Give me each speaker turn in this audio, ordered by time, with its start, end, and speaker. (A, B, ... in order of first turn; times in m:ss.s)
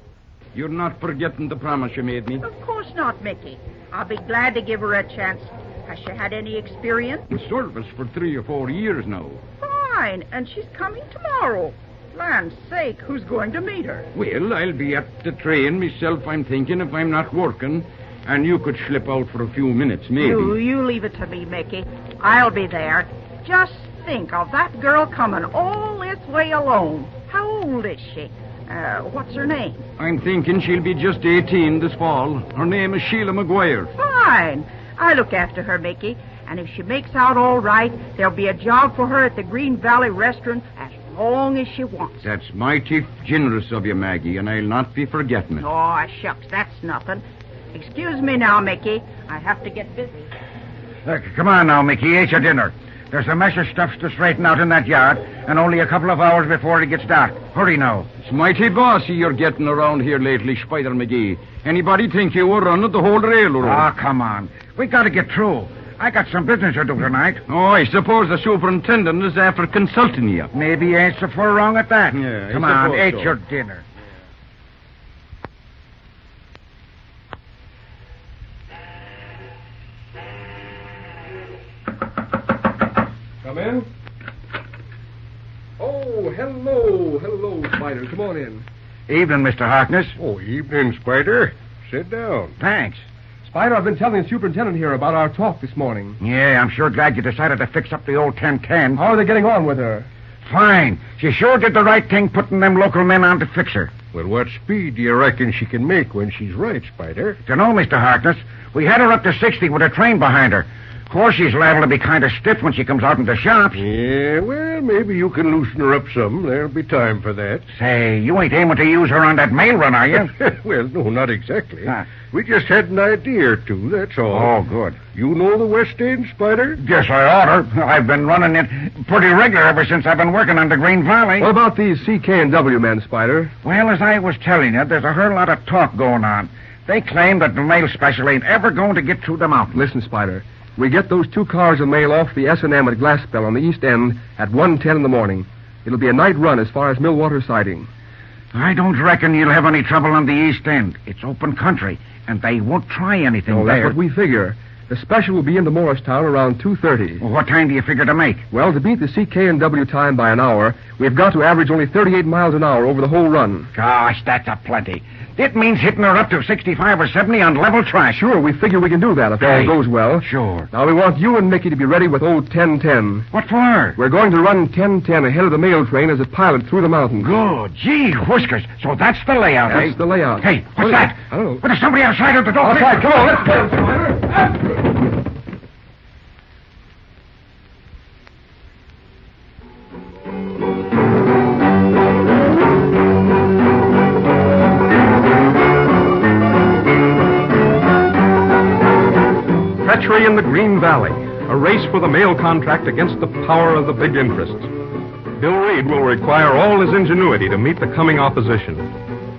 0:00.5-0:02.4 A
0:02.4-0:07.2 B
0:07.3-0:09.4 A
0:09.6-0:14.0 B
0:14.1-0:20.6 A
0:20.2-0:29.8 B
0:30.0-0:33.9 A
0:34.0-0:42.1 B
0:42.2-0:45.6 A
0:45.6-0:47.2 B
0:47.7-0:50.2 B
0:51.0-0:58.1 C
0:58.2-1:03.9 A
1:03.6-1:07.4 C
1:07.5-1:10.5 A
1:10.5-1:13.8 C
1:12.1-1:13.3 A
1:23.4-1:23.9 D
1:25.8-1:28.6 D
1:29.1-1:30.2 C
1:30.2-1:32.5 E
1:32.6-1:33.0 C
1:33.4-1:36.2 D
1:36.2-1:39.0 C
1:39.0-1:40.1 D
1:40.4-1:43.9 C
1:44.1-1:47.4 E
1:47.4-1:53.8 C
1:53.8-1:57.6 E
1:57.7-2:00.3 C
2:00.3-2:06.8 E
2:04.3-2:05.0 C
2:06.8-2:11.5 C
2:11.4-2:13.5 D
2:13.6-2:19.8 C
2:19.7-2:27.9 D
2:28.5-2:34.0 C
2:33.5-2:37.2 D
2:37.2-2:38.4 C
2:38.5-2:43.7 D
2:43.7-2:48.2 C
2:48.1-2:53.3 D
2:49.4-2:50.7 C
2:53.3-2:54.0 C
2:54.0-2:57.3 D
2:57.2-3:03.1 C
2:59.7-3:01.6 D
3:02.6-3:04.4 D
3:19.8-3:24.7 F
3:25.4-3:28.9 F